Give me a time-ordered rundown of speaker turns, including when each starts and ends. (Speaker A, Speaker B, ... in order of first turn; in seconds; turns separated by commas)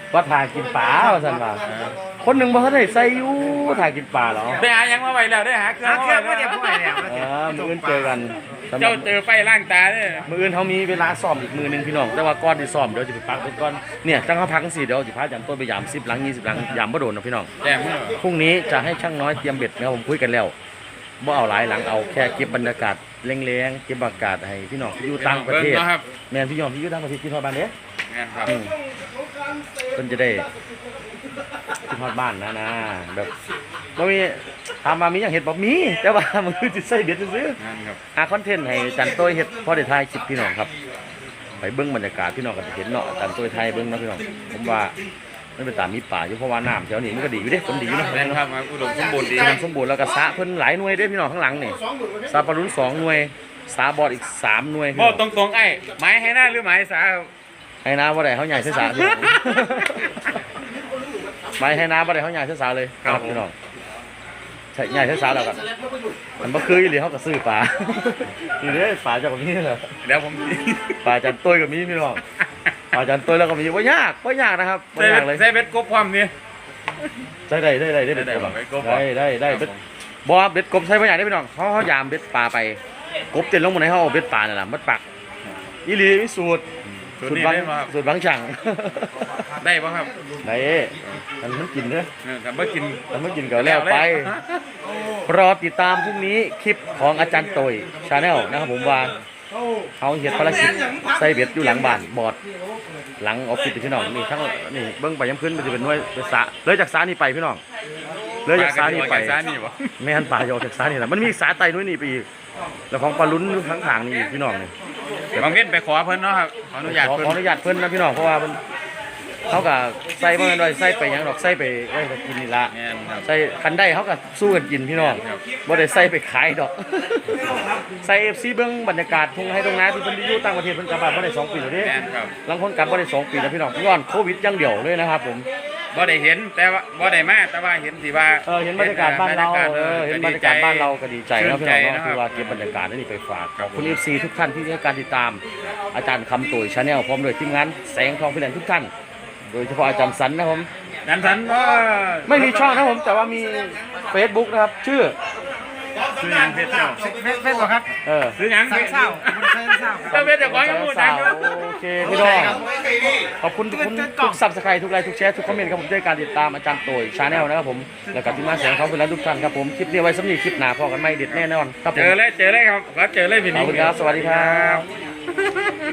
Speaker A: 0.1-1.6, Speaker B: 1.6-2.0, Speaker A: 2.2-4.7, Speaker B: 4.6-7.1, Speaker C: 6.1-7.0, Speaker A: 7.0-9.1, Speaker B: 8.8-10.3, Speaker A: 10.3-17.5, Speaker B: 17.6-18.2, Speaker A: 18.2-20.6, Speaker A: 21.2-27.7, Speaker B: 25.1-26.1, Speaker B: 28.1-28.6, Speaker A: 28.4-28.8, Speaker A: 29.9-30.5, Speaker A: 31.7-33.4, Speaker A: 33.9-37.6, Speaker B: 37.6-38.0, Speaker A: 38.1-40.7, Speaker A: 41.6-44.9, Speaker A: 45.6-48.4, Speaker B: 47.9-49.6, Speaker A: 49.2-55.2, Speaker B: 54.9-57.3, Speaker A: 57.8-60.3, Speaker B: 59.1-59.5, Speaker A: 61.6-63.5, Speaker B: 63.0-63.4, Speaker A: 64.7-65.7, Speaker A: 66.4-70.0, Speaker B: 70.0-71.1, Speaker A: 71.0-72.2, Speaker A: 72.9-75.4, Speaker B: 75.0-76.3, Speaker A: 77.5-79.7, Speaker B: 78.1-79.8, Speaker A: 80.2-82.8, Speaker A: 83.3-85.0, Speaker A: 85.8-86.7, Speaker B: 87.0-87.9, Speaker A: 87.2-89.5, Speaker B: 89.6-90.1, Speaker A: 90.4-92.1, Speaker B: 92.2-94.6, Speaker A: 93.1-94.3, Speaker A: 95.2-99.2, Speaker A: 100.0-102.4, Speaker A: 103.2-107.6, Speaker A: 108.5-109.4, Speaker B: 108.5-109.9, Speaker A: 110.0-112.3, Speaker A: 112.9-114.7, Speaker B: 115.3-117.4, Speaker A: 116.8-118.6, Speaker A: 119.5-131.9, Speaker B: 122.7-123.3, Speaker B: 125.0-125.4, Speaker B: 131.8-132.3, Speaker A: 132.4-135.5, Speaker B: 135.9-142.7, Speaker A: 138.4-148.9, Speaker B: 143.6-144.0, Speaker A: 149.5-150.7, Speaker B: 151.1-152.7, Speaker A: 152.3-155.2, Speaker B: 156.2-157.0, Speaker A: 156.3-157.1, Speaker C: 157.0-157.9, Speaker A: 158.0-158.4, Speaker B: 158.4-162.6, Speaker C: 158.7-160.1, Speaker A: 160.0-162.7, Speaker C: 162.2-162.7, Speaker A: 163.4-172.2, Speaker C: 163.8-164.4, Speaker B: 171.3-174.9, Speaker A: 173.5-174.9, Speaker B: 175.4-175.8